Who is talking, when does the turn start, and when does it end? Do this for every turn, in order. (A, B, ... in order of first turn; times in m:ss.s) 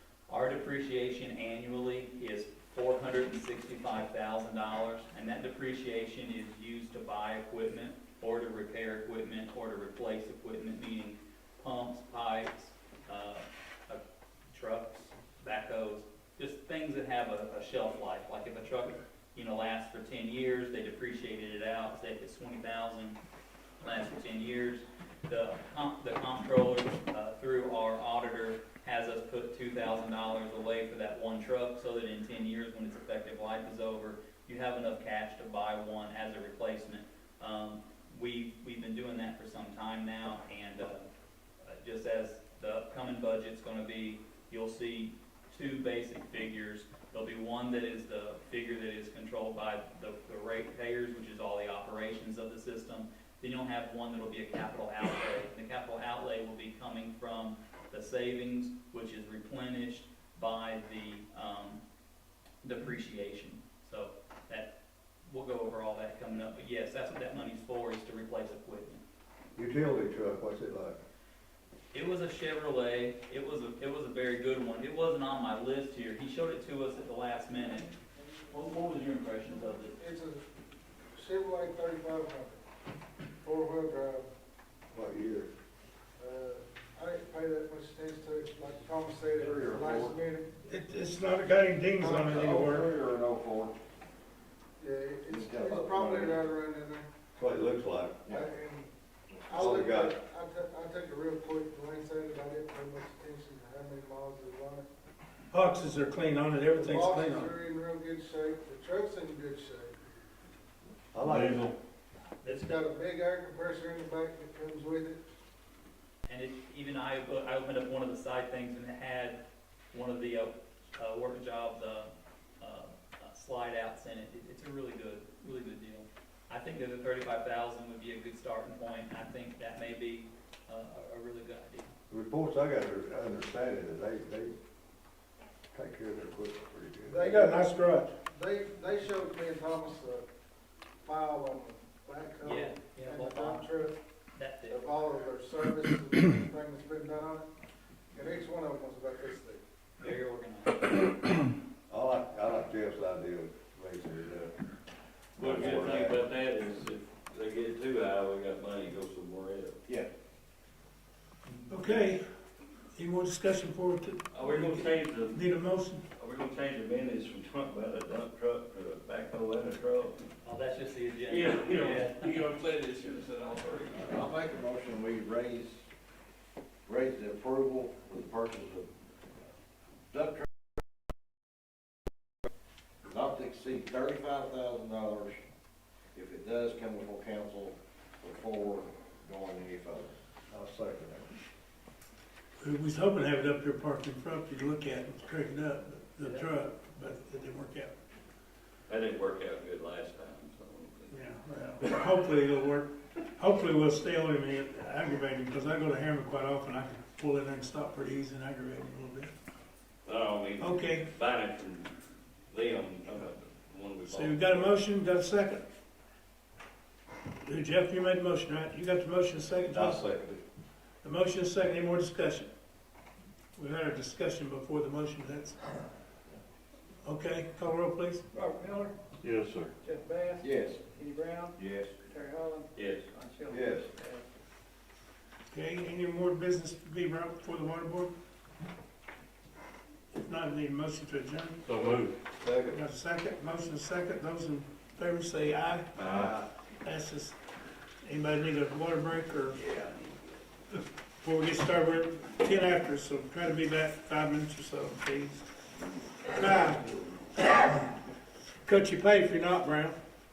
0:00.3-0:23.2 A
0:23.8-0:41.1 A
0:41.6-1:01.8 A
1:02.6-1:04.7 A
1:05.2-1:09.0 A
1:09.6-1:11.0 B
1:11.9-1:17.9 A
1:18.5-1:20.0 A
1:20.0-1:20.4 C
1:21.1-1:22.6 C
1:23.4-1:24.2 C
1:24.9-1:25.5 B
1:26.2-1:30.5 C
1:29.3-1:30.2 D
1:30.6-1:32.9 E
1:32.0-1:32.3 C
1:32.2-1:33.8 D
1:34.8-1:37.1 C
1:35.3-1:36.4 D
1:37.4-1:38.3 B
1:38.3-1:38.9 C
1:39.3-1:39.6 D
1:39.5-1:44.9 C
1:39.5-1:40.1 B
1:45.5-1:47.5 E
1:46.7-1:49.9 C
1:51.1-1:51.7 B
1:51.2-1:51.7 F
1:52.4-1:52.8 A
1:52.5-1:55.2 C
1:56.3-1:59.4 A
1:59.9-2:11.9 A
2:12.1-2:14.5 B
2:15.7-2:17.5 B
2:17.1-2:17.7 C
2:17.2-2:18.1 E
2:18.3-2:20.2 C
2:21.0-2:24.0 C
2:22.4-2:23.6 A
2:24.3-2:24.8 A
2:24.7-2:27.4 C
2:28.1-2:29.6 C
2:30.0-2:30.9 A
2:31.9-2:34.5 B
2:35.4-2:36.2 B
2:35.4-2:39.8 F
2:41.5-2:42.0 A
2:41.7-2:42.2 E
2:42.9-2:46.0 E
2:44.3-2:45.4 F
2:46.2-2:50.2 F
2:50.4-2:52.3 A
2:51.3-2:54.2 F
2:53.9-2:55.8 D
2:56.8-2:58.9 D
3:00.1-3:00.4 D
3:03.0-3:05.4 D
3:06.1-3:10.1 D
3:10.5-3:11.3 B
3:12.6-3:17.9 E
3:18.9-3:21.2 F
3:21.1-3:29.3 E
3:30.0-3:31.9 F
3:30.6-3:31.1 E
3:32.5-3:34.7 F
3:34.0-3:35.6 E
3:37.4-3:40.0 E
3:39.7-3:40.4 B
3:41.0-3:42.5 E
3:43.6-3:45.6 E
3:47.0-3:48.2 E
3:48.3-3:48.9 G
3:49.2-3:49.7 F
3:49.8-3:54.2 G
3:50.4-3:50.8 D
3:51.6-3:51.9 D
3:52.7-3:53.1 F
3:53.5-3:53.9 B
3:55.5-3:58.1 E
4:00.1-4:01.6 E
4:01.6-4:02.1 F
4:01.7-4:02.8 B
4:02.6-4:06.3 E
4:06.0-4:06.5 B
4:06.8-4:07.4 E
4:08.0-4:09.6 E
4:09.6-4:09.9 B
4:11.2-4:15.4 E
4:16.2-4:16.8 E
4:17.4-4:17.8 E
4:18.6-4:20.0 E